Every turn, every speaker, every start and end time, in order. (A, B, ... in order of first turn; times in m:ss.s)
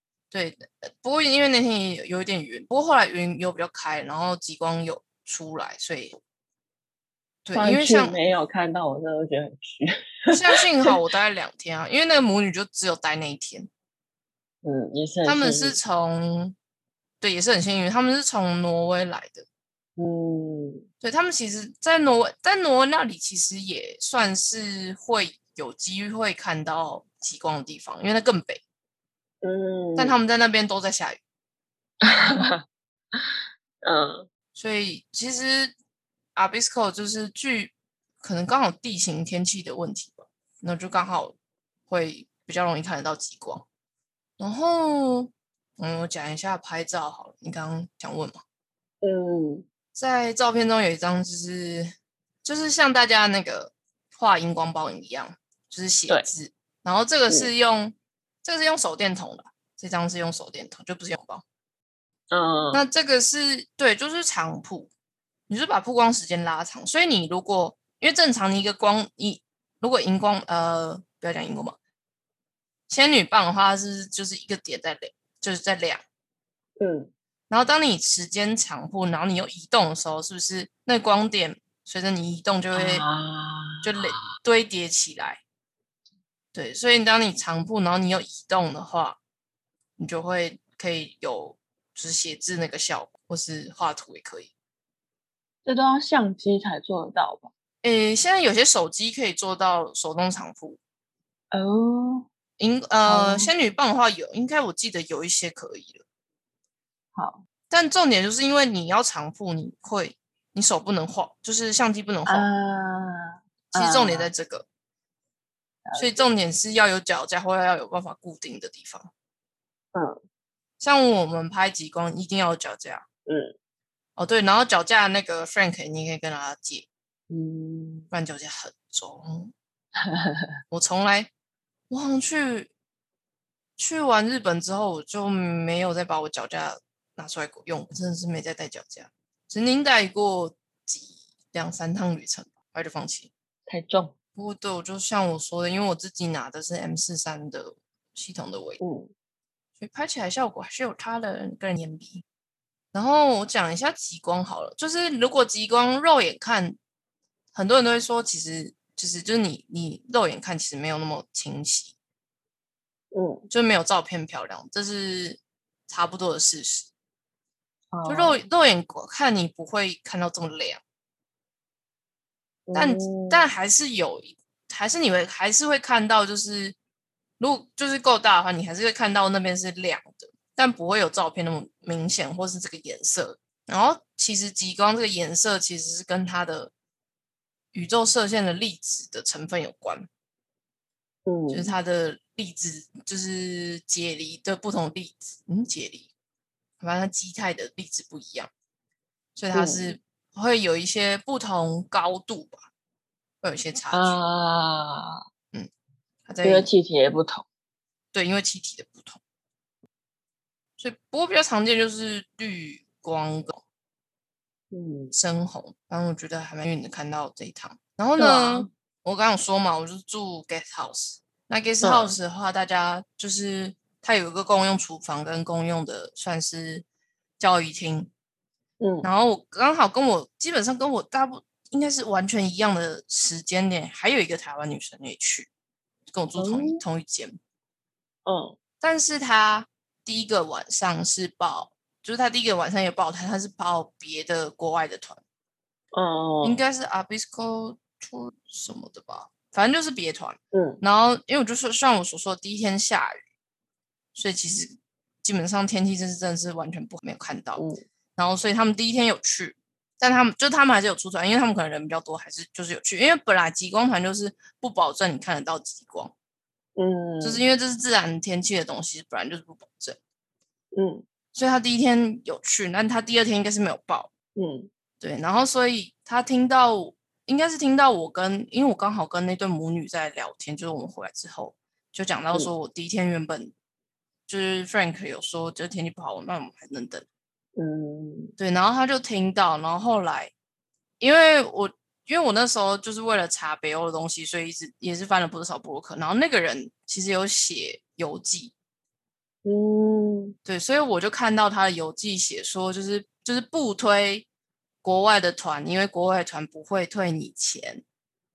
0:00.3-0:06.2 A
0:07.4-0:08.2 A
0:07.5-0:10.9 B
0:10.3-0:13.7 A
0:14.6-0:15.8 B
0:15.2-0:16.5 A
0:17.2-0:19.4 A
0:20.0-0:20.8 B
0:21.0-0:28.6 A
0:29.4-0:30.2 B
0:30.0-0:31.2 A
0:32.0-0:32.6 B
0:33.8-0:34.3 B
0:34.5-0:35.7 A
0:36.3-0:41.4 A
0:41.9-0:43.6 A
0:44.4-0:48.4 A
0:49.0-0:49.6 B
0:49.9-1:01.4 A
1:02.3-1:02.8 B
1:02.7-1:04.9 A
1:05.5-1:11.8 A
1:12.9-1:16.0 A
1:16.8-1:17.1 B
1:17.5-1:23.0 A
1:22.7-1:24.2 B
1:23.8-1:25.4 A
1:26.5-1:29.2 A
1:30.0-1:34.5 A
1:35.6-1:37.5 B
1:37.8-1:40.8 A
1:41.5-1:42.3 B
1:42.6-1:46.0 A
1:43.0-1:43.5 B
1:47.1-1:47.4 B
1:47.7-1:52.5 A
1:52.2-1:54.3 B
1:53.7-1:54.7 A
1:55.8-1:56.2 B
1:55.9-1:59.1 A
1:59.9-2:00.2 B
2:00.8-2:03.0 A
2:03.2-2:03.5 B
2:04.2-2:06.9 A
2:07.3-2:08.1 B
2:08.1-2:09.5 A
2:10.0-2:10.5 B
2:10.7-2:11.3 A
2:11.9-2:12.7 A
2:13.8-2:23.3 A
2:23.7-2:24.1 B
2:24.4-2:28.8 A
2:28.8-2:29.1 B
2:29.8-2:32.2 A
2:32.9-2:36.8 A
2:37.5-2:41.9 A
2:43.1-2:43.5 B
2:43.5-2:46.9 A
2:47.9-2:48.4 B
2:48.0-2:50.8 A
2:52.7-2:53.5 B
2:52.7-2:56.8 A
2:57.4-3:06.7 A
3:07.7-3:10.1 A
3:11.2-3:11.7 B
3:11.5-3:16.1 A
3:16.8-3:18.5 A
3:19.4-3:22.6 A
3:19.5-3:19.9 B
3:23.4-3:24.2 A
3:23.9-3:25.2 B
3:26.2-3:26.7 A
3:26.4-3:27.4 B
3:28.1-3:29.2 A
3:30.8-3:33.6 A
3:34.7-3:35.1 B
3:35.1-3:46.8 A
3:38.2-3:38.7 B
3:41.8-3:42.2 B
3:47.4-3:48.1 A
3:48.8-3:49.1 B
3:49.0-3:55.5 A
3:56.1-3:57.4 A
3:56.4-3:56.8 B
3:58.2-3:58.6 B
3:58.8-4:05.2 A
4:05.9-4:06.6 B
4:06.4-4:13.2 A
4:10.5-4:10.8 B
4:14.1-4:17.6 A
4:17.6-4:17.8 B
4:18.2-4:26.1 A
4:26.8-4:27.4 B
4:27.2-4:30.0 A
4:30.7-4:31.0 B
4:31.3-4:34.1 A
4:34.4-4:34.7 B
4:35.0-4:43.5 A
4:44.3-4:47.0 A
4:47.6-4:48.3 B
4:48.4-4:50.3 A
4:51.0-4:58.5 A
4:59.4-5:00.4 B
5:00.4-5:04.3 A
5:04.8-5:07.8 A